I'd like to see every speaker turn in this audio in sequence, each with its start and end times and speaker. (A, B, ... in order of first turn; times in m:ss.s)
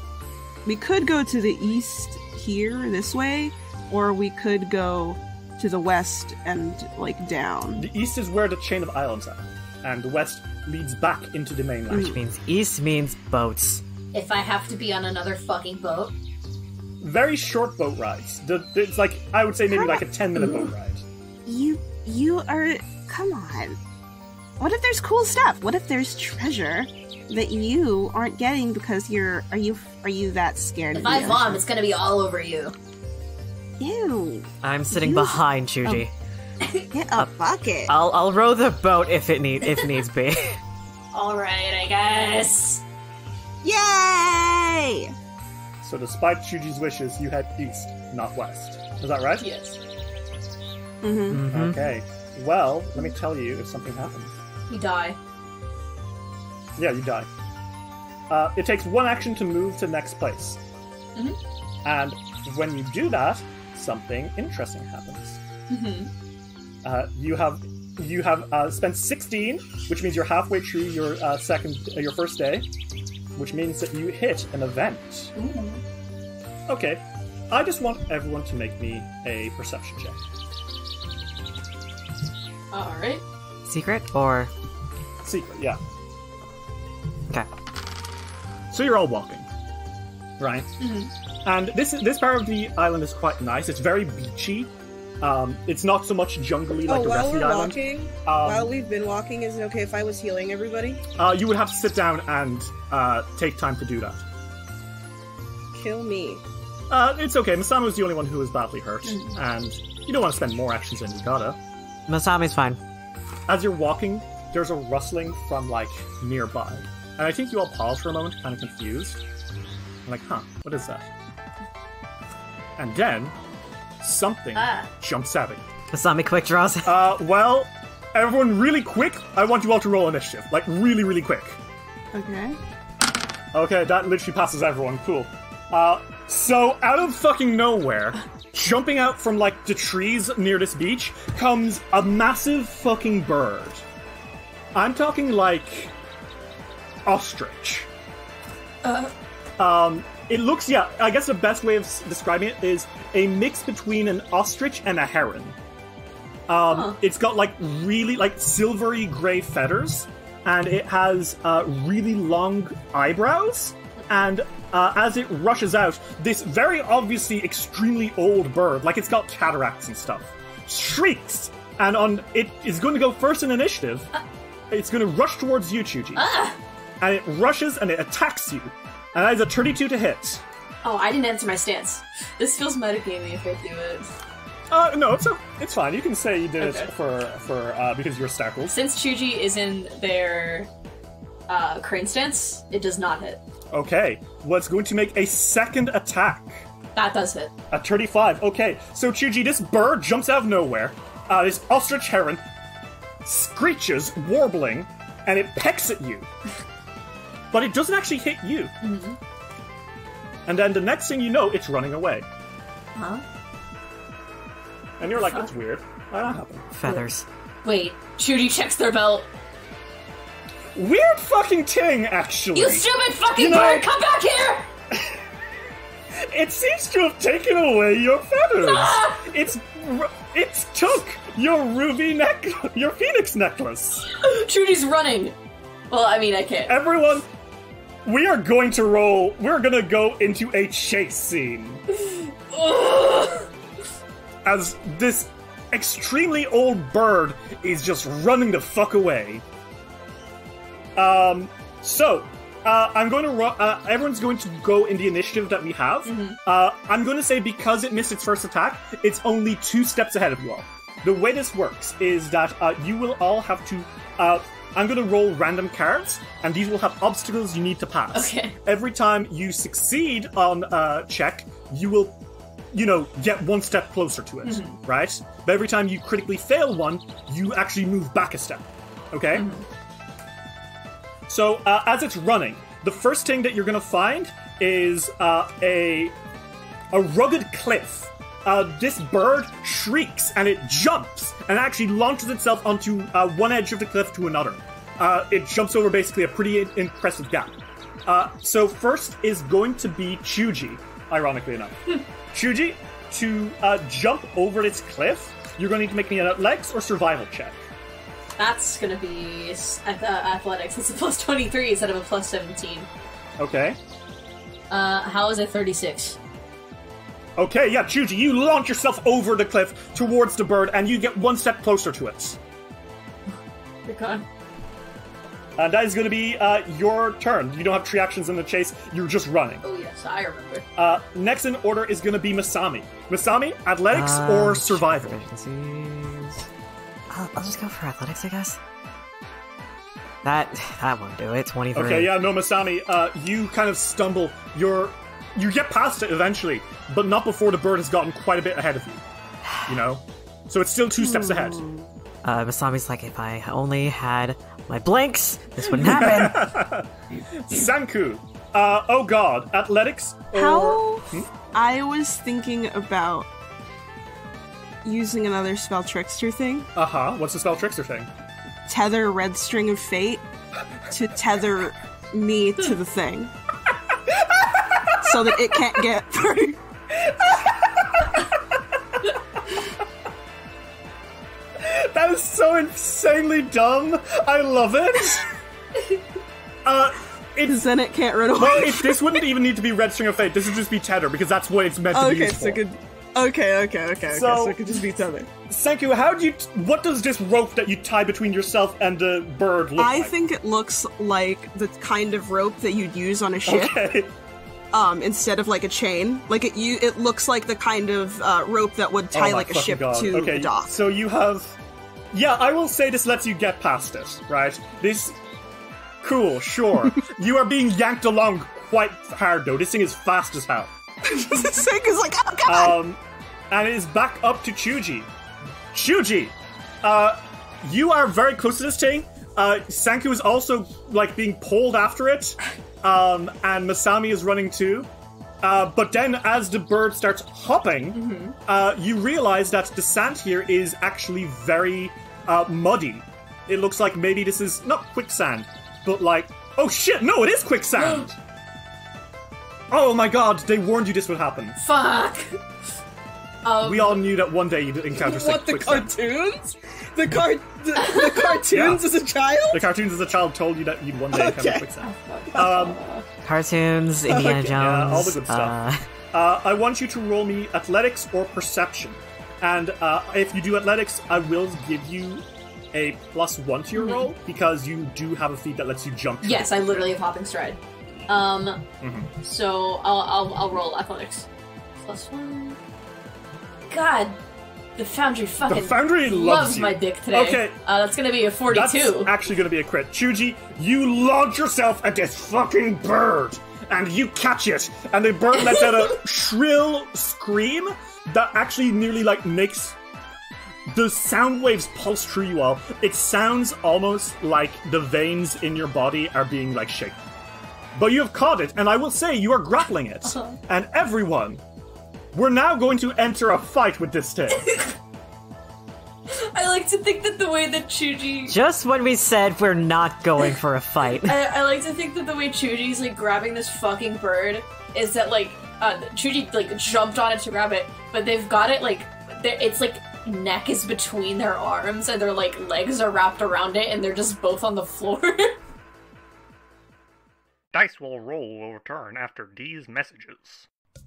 0:00.6-0:07.9 A
0:07.8-0:12.2 B
0:11.9-0:12.2 A
0:12.0-0:13.8 C
0:14.1-0:16.1 D
0:17.0-0:21.0 B
0:19.7-0:20.7 A
0:21.4-0:23.8 A
0:24.6-0:31.6 A
0:30.9-0:32.7 D
0:33.8-0:35.4 A
0:34.6-0:36.1 C
0:36.9-0:37.9 A
0:37.9-0:40.6 C
0:41.1-0:42.8 D
0:43.6-0:45.1 A
0:45.8-0:49.5 B
0:49.4-0:49.8 D
0:51.0-0:51.4 A
0:51.3-0:51.8 C
0:51.5-0:54.3 B
0:54.7-0:55.2 D
0:56.8-0:57.3 B
0:58.3-1:00.6 B
1:01.8-1:05.4 B
1:05.7-1:06.1 D
1:06.8-1:12.7 B
1:13.4-1:15.3 B
1:15.3-1:15.8 D
1:16.7-1:20.2 B
1:22.7-1:23.2 D
1:23.6-1:24.5 C
1:25.2-1:25.8 B
1:28.7-1:29.5 B
1:30.4-1:30.7 B
1:30.8-1:31.1 D
1:31.4-1:34.7 B
1:35.2-1:38.7 B
1:36.9-1:41.0 A
1:41.2-1:44.2 B
1:45.7-1:46.4 A
1:46.9-1:51.6 B
1:49.0-1:49.3 D
1:52.1-1:52.8 C
1:53.5-1:59.2 B
2:00.0-2:01.1 B
2:02.8-2:03.3 B
2:04.0-2:05.6 B
2:04.5-2:04.9 D
2:05.9-2:06.8 C
2:06.8-2:11.6 B
2:12.1-2:12.6 A
2:13.5-2:23.8 B
2:24.7-2:25.9 B
2:27.0-2:27.9 B
2:28.8-2:29.1 D
2:29.6-2:35.6 B
2:36.5-2:54.1 B
2:36.7-2:37.0 D
2:54.7-2:56.2 B
2:56.2-2:56.6 D
2:57.0-3:00.4 B
3:00.8-3:04.1 D
3:04.7-3:08.8 B
3:06.6-3:06.9 D
3:08.7-3:10.7 D
3:11.5-3:13.4 D
3:13.7-3:16.6 B
3:16.9-3:17.5 D
3:17.7-3:22.4 B
3:23.2-3:26.3 B
3:27.5-3:28.7 B
3:28.8-3:29.2 D
3:30.4-3:32.2 B
3:33.0-3:33.2 D
3:35.0-3:36.7 B
3:36.7-3:37.2 C
3:37.6-3:39.3 D
3:40.7-3:42.8 B
3:42.5-3:44.7 D
3:43.4-3:43.8 B
3:46.1-3:54.0 B
3:48.6-3:49.3 D
3:54.1-3:55.4 D
3:55.9-3:56.8 D
3:56.7-3:57.2 B
3:58.0-4:01.8 B
4:01.9-4:03.5 D
4:04.4-4:09.4 B
4:11.0-4:32.2 B
4:16.0-4:16.4 D
4:28.1-4:28.6 D
4:32.7-4:39.5 B
4:34.4-4:34.8 D
4:39.3-4:39.6 D
4:41.3-4:46.1 B
4:46.9-4:57.5 B
4:58.1-5:07.7 B
5:08.4-5:12.9 D
5:13.4-5:13.8 B
5:14.7-5:16.2 D
5:17.4-5:22.4 B
5:23.8-5:24.2 D
5:25.6-5:29.6 B
5:29.6-5:30.6 D
5:30.8-5:35.1 B
5:33.9-5:36.4 C
5:37.1-5:38.6 C
5:40.2-5:42.1 C
5:41.7-5:49.0 B
5:49.6-5:51.6 B
5:51.0-5:51.9 A
5:52.2-5:56.4 C
5:55.7-6:01.3 B
6:00.3-6:03.3 A
6:04.8-6:06.7 A
6:06.7-6:08.1 B
6:08.6-6:10.2 A
6:10.9-6:13.3 A
6:14.1-6:15.2 B
6:15.0-6:16.6 A
6:17.0-6:18.4 B
6:21.6-6:25.3 B
6:26.6-6:27.6 B
6:27.4-6:29.2 A
6:28.3-6:32.6 B
6:31.9-6:35.3 A
6:34.1-6:34.6 B
6:35.5-6:40.1 B
6:39.8-6:43.8 A
6:43.4-6:44.1 B
6:44.7-6:50.7 A
6:49.1-6:51.6 B
6:52.1-6:55.2 B
6:56.0-7:00.7 B
7:01.0-7:02.8 A
7:02.4-7:03.0 B
7:03.5-7:05.1 B
7:05.7-7:14.9 B
7:15.4-7:28.1 B
7:17.9-7:18.4 D
7:27.8-7:28.1 D
7:29.7-7:31.6 B
7:31.6-7:32.4 D
7:33.4-7:34.0 D
7:33.6-7:35.9 B
7:34.9-7:39.7 A
7:37.8-7:38.3 D
7:38.5-7:38.8 B
7:39.5-7:42.8 B
7:41.1-7:41.7 A
7:41.8-7:43.0 D
7:42.3-7:42.6 A
7:43.2-7:45.8 C
7:44.1-7:45.6 B
7:46.1-7:56.9 B
7:53.7-7:54.1 D
7:56.2-7:58.6 D
7:58.8-7:59.1 B
7:59.2-8:01.3 D
8:01.8-8:02.6 D
8:03.7-8:04.2 D
8:04.8-8:09.1 D
8:05.5-8:07.6 B
8:08.5-8:19.8 B
8:15.4-8:15.9 D
8:20.7-8:27.0 B
8:27.8-8:31.4 B
8:30.0-8:30.4 D
8:32.1-8:34.5 B
8:34.3-8:34.7 D
8:36.1-8:38.4 D
8:38.3-8:41.2 C
8:41.0-8:55.4 D
8:57.5-9:00.4 B